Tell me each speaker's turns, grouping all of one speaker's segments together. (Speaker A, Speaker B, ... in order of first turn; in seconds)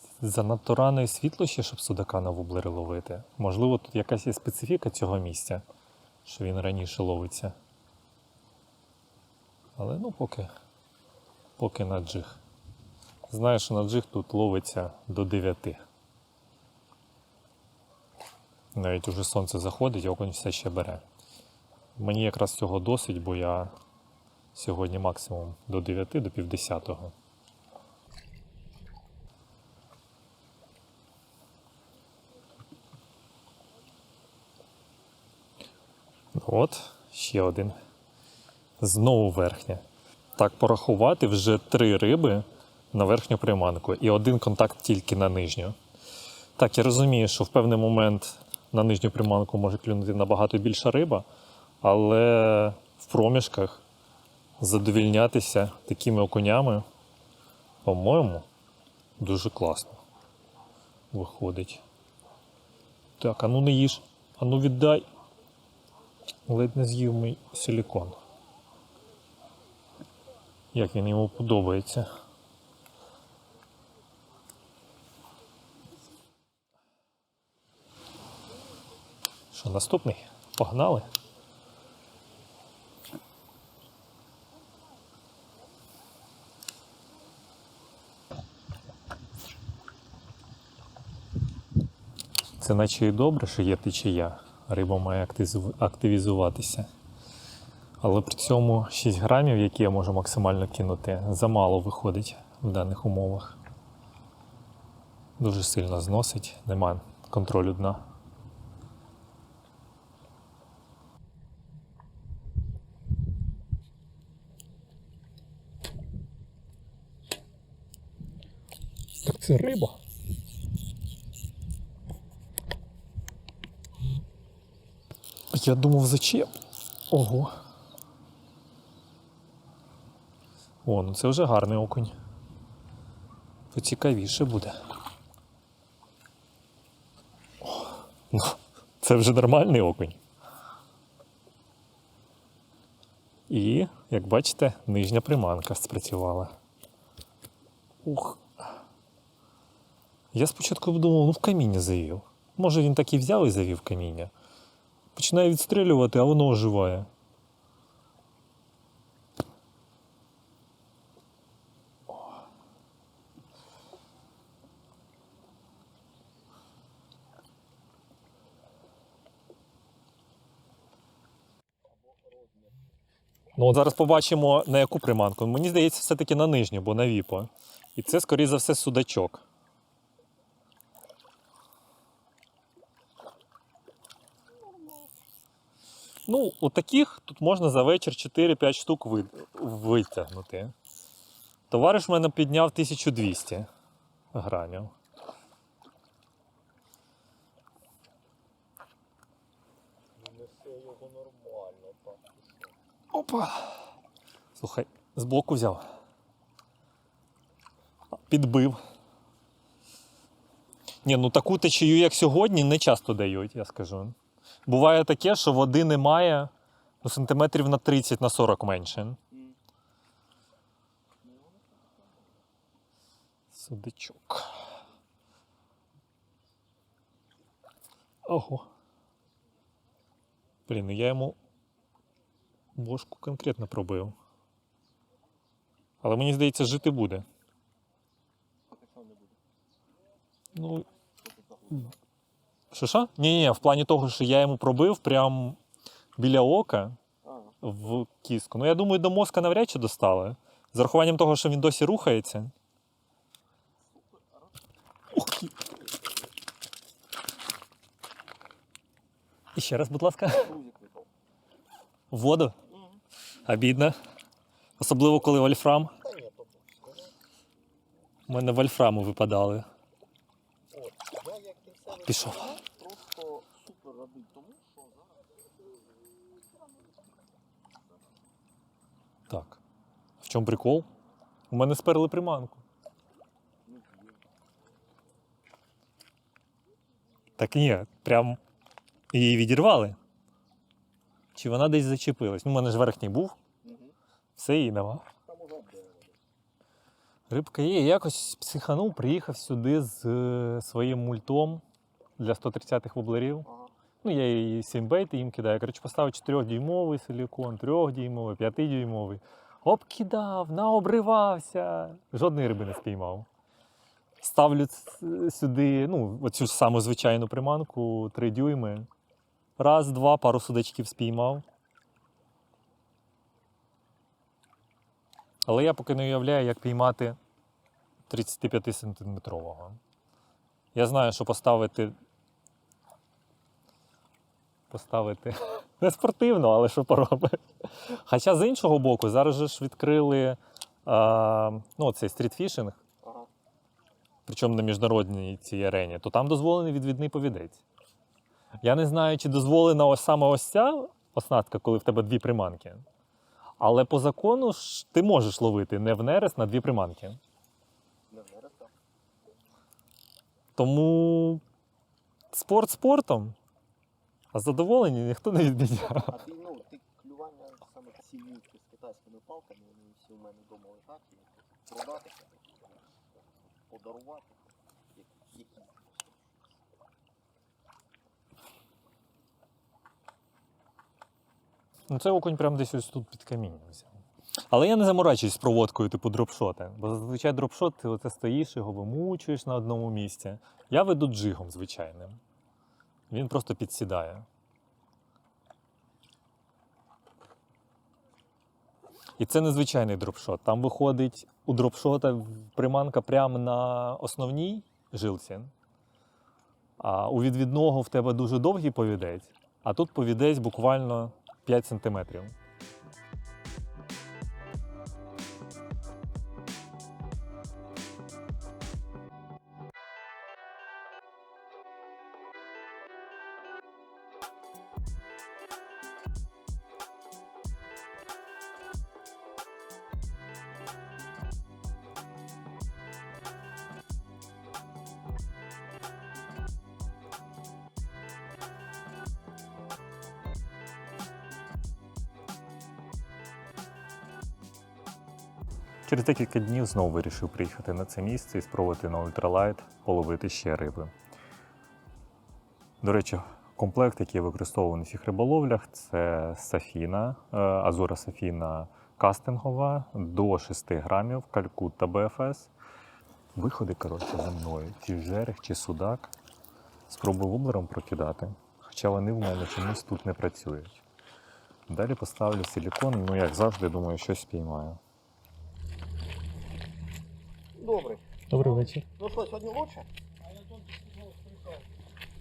Speaker A: 0.2-5.6, 6.2-7.5, 9.8-10.5, 11.6-12.4, 13.3-15.8, 18.8-21.0, 22.0-23.7, 24.6-27.1, 36.4-37.8, 38.8-39.8, 40.4-45.8, 46.6-51.3, 51.8-53.8, 54.6-56.9, 57.8-58.5, 59.2-60.0, 61.1-61.8, 63.2-65.0, 66.5-68.2, 70.7-72.1, 79.5-81.1, 92.6-96.9, 98.0-103.6, 105.4-108.0, 119.2-120.0, 125.5-126.5, 127.1-127.5, 130.8-132.2, 133.7-134.8, 137.7-140.2, 143.5-146.6, 148.0-148.5, 150.3-154.3, 155.2-157.1, 173.6-179.4, 186.3-190.7, 191.7-193.7, 194.3-194.9, 203.1-203.8, 204.6-205.9, 208.3-208.8, 211.0-216.5, 217.0-219.2, 223.5-224.6, 228.3-228.7, 230.7-231.4, 232.8-234.2, 236.0-237.3, 240.6-240.9, 242.7-245.6, 246.2-247.0, 247.6-252.5, 255.1-255.6, 259.6-260.5, 262.1-262.6, 263.4-264.0, 264.8-265.9, 268.3-269.7, 272.0-272.6, 279.3-279.6, 280.2-280.9, 281.5-282.6, 287.4-288.4, 289.1-290.0, 291.4-293.4, 294.4-295.1, 297.3-301.6, 302.2-303.5, 304.0-313.3, 314.2-318.9, 319.6-321.4, 325.5-327.2, 328.1-329.8, 330.8-331.9, 334.7-342.8, 344.3-347.6, 348.6-352.9, 353.6-357.2, 360.6-361.4, 362.3-363.4, 364.3-366.2, 381.9-384.0, 384.5-392.2, 393.1-394.3, 399.2-405.5, 406.8-412.4, 445.9-450.9, 452.8-462.5, 463.4-466.1, 466.9-470.8, 471.7-474.8, 478.3-478.9
Speaker B: 172.0-172.8, 184.7-185.1, 200.2-202.7, 219.3-219.6, 221.2-222.4, 238.7-239.4, 241.2-242.0, 247.2-247.6, 253.8-254.6, 260.3-261.1, 262.7-263.0, 266.0-267.1, 270.7-275.3, 283.7-284.3, 293.6-294.0, 295.3-296.2, 303.4-303.7, 343.0-343.3, 358.1-358.8, 365.8-376.5, 477.6-479.9